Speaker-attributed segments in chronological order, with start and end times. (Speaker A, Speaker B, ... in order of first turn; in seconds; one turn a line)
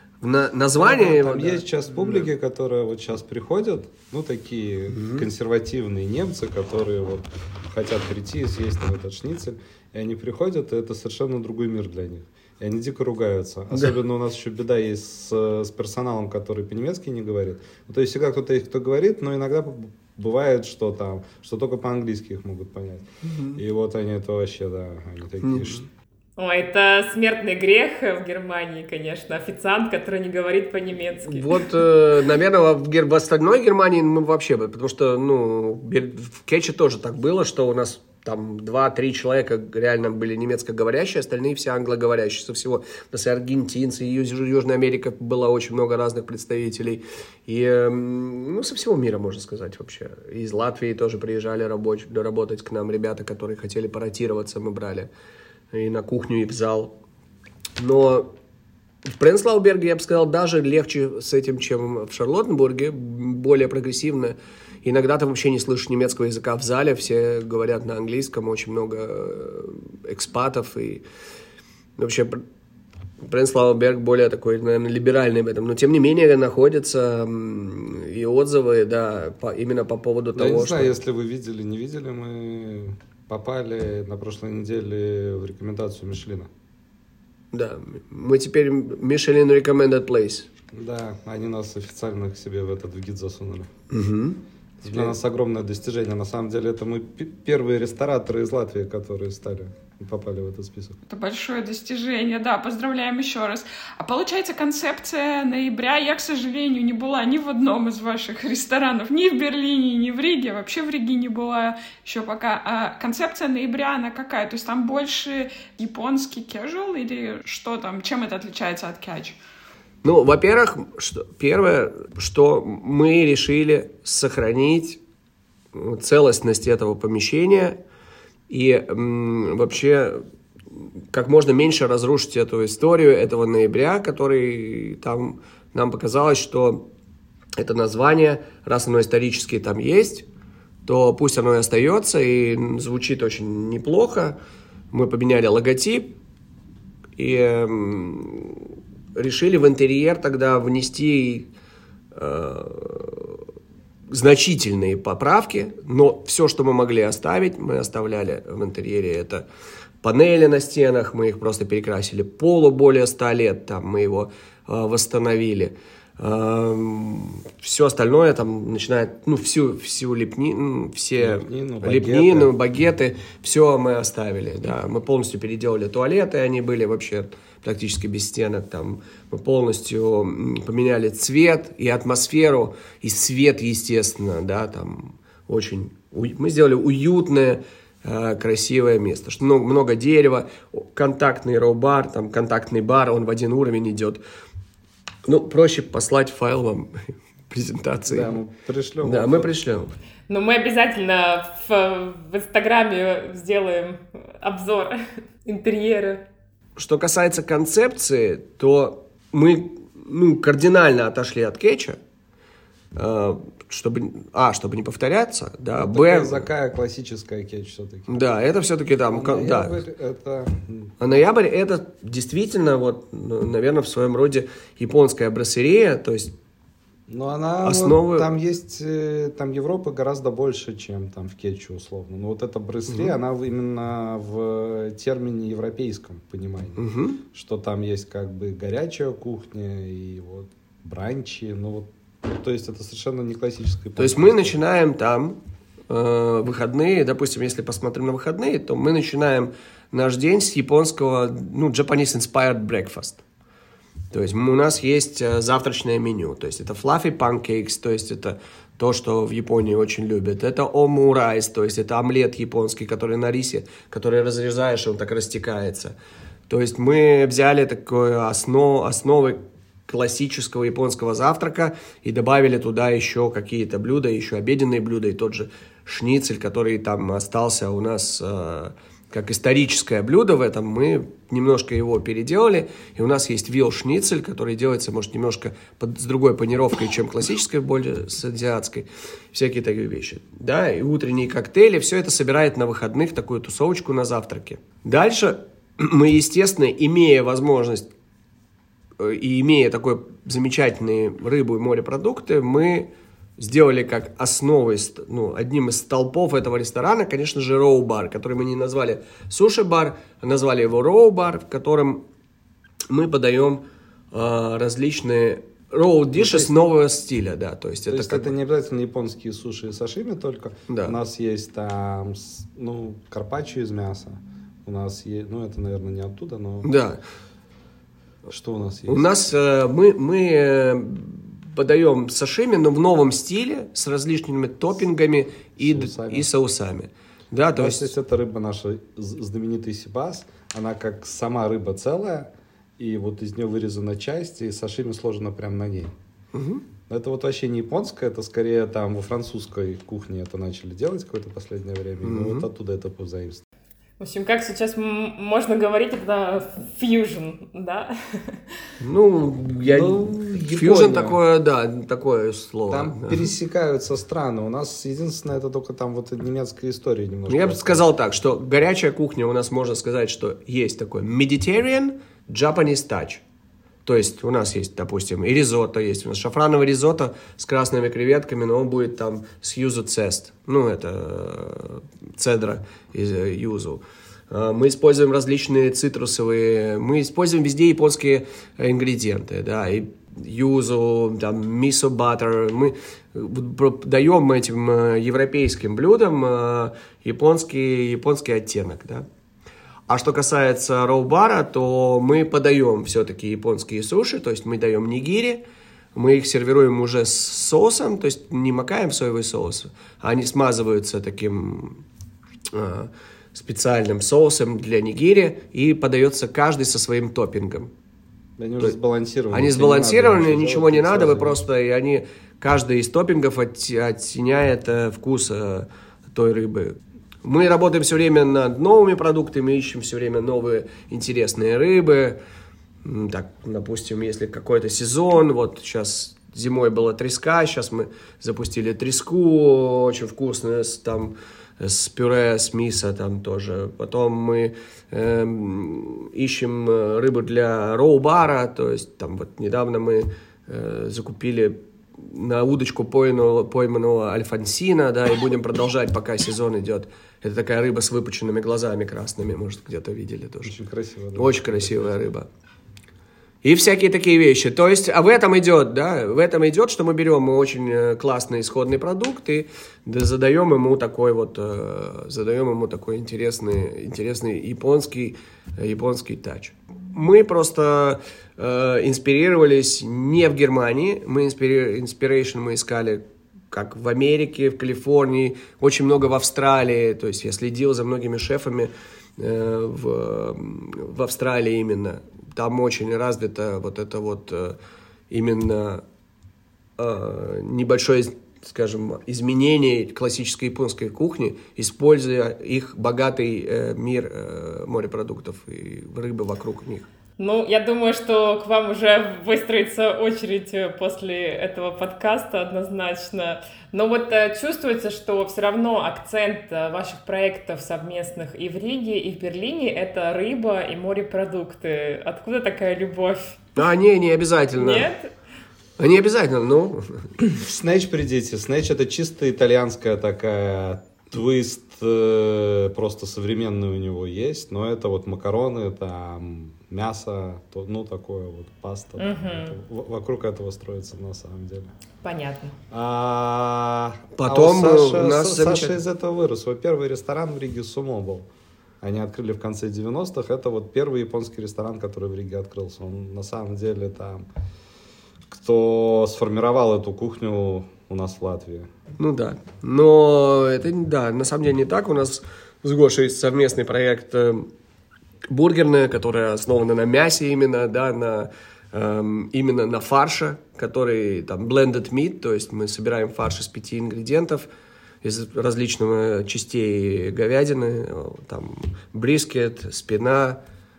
Speaker A: 0.2-2.3
Speaker B: 0.8-25.8
Speaker A: 4.9-5.2
Speaker A: 23.3-23.6
Speaker A: 25.4-25.8
Speaker C: 26.4-31.6
Speaker A: 31.2-55.1
Speaker A: 55.7-57.0
Speaker A: 57.8-58.3
Speaker A: 59.2-71.0
Speaker A: 72.0-72.4
Speaker A: 73.2-81.0
Speaker B: 80.3-86.5
Speaker A: 87.5-90.5
Speaker B: 90.7-93.7
Speaker A: 93.9-95.1
Speaker B: 94.8-101.0
Speaker D: 101.1-119.4
Speaker A: 120.0-125.0
Speaker A: 125.7-127.8
Speaker A: 128.5-130.2
Speaker A: 130.7-136.8
Speaker A: 137.6-140.2
Speaker A: 140.8-144.4
Speaker A: 144.9-146.1
Speaker A: 147.2-151.5
Speaker A: 152.1-153.4
Speaker A: 154.1-159.4
Speaker A: 160.0-194.2
Speaker B: 171.2-172.5
Speaker A: 195.2-198.3
Speaker B: 198.1-199.6
Speaker A: 199.0-199.9
Speaker C: 200.3-206.2
Speaker A: 206.8-212.0
Speaker A: 212.9-216.5
Speaker B: 215.7-218.1
Speaker A: 218.1-219.8
Speaker B: 219.1-220.9
Speaker A: 221.0-226.3
Speaker B: 227.1-244.6
Speaker A: 227.6-228.3
Speaker A: 232.9-233.2
Speaker A: 236.8-237.2
Speaker A: 243.9-245.4
Speaker A: 245.9-253.2
Speaker A: 254.1-265.9
Speaker A: 266.5-297.9
Speaker A: 299.0-312.0
Speaker A: 312.9-318.3
Speaker B: 316.2-316.6
Speaker B: 317.9-326.7
Speaker A: 320.7-320.9
Speaker A: 326.6-327.0
Speaker B: 328.3-329.1
Speaker A: 328.9-337.9
Speaker B: 335.6-336.3
Speaker B: 337.5-345.9
Speaker A: 346.3-346.6
Speaker B: 346.9-353.4
Speaker A: 352.0-352.4
Speaker C: 354.0-358.4
Speaker A: 358.8-363.3
Speaker B: 359.6-361.2
Speaker B: 362.7-367.9
Speaker A: 367.3-373.2
Speaker A: 373.8-399.1
Speaker A: 399.9-405.4
Speaker A: 405.9-411.8
Speaker A: 412.5-417.7
Speaker B: 418.4-421.4
Speaker A: 419.3-432.2
Speaker A: 432.8-460.6
Speaker B: 460.4-461.9
Speaker A: 461.1-462.3
Speaker A: 463.4-494.6
Speaker A: 495.1-495.8
Speaker A: 496.8-506.9
Speaker C: 507.2-523.4
Speaker A: 523.5-524.9
Speaker C: 524.6-525.1
Speaker A: 525.8-527.1
Speaker B: 527.3-541.7
Speaker C: 539.0-539.5
Speaker C: 542.0-542.5
Speaker B: 542.7-548.3
Speaker A: 544.2-545.8
Speaker B: 548.8-554.2
Speaker B: 555.3-558.7
Speaker A: 559.0-564.5
Speaker A: 565.3-574.5
Speaker A: 575.0-580.4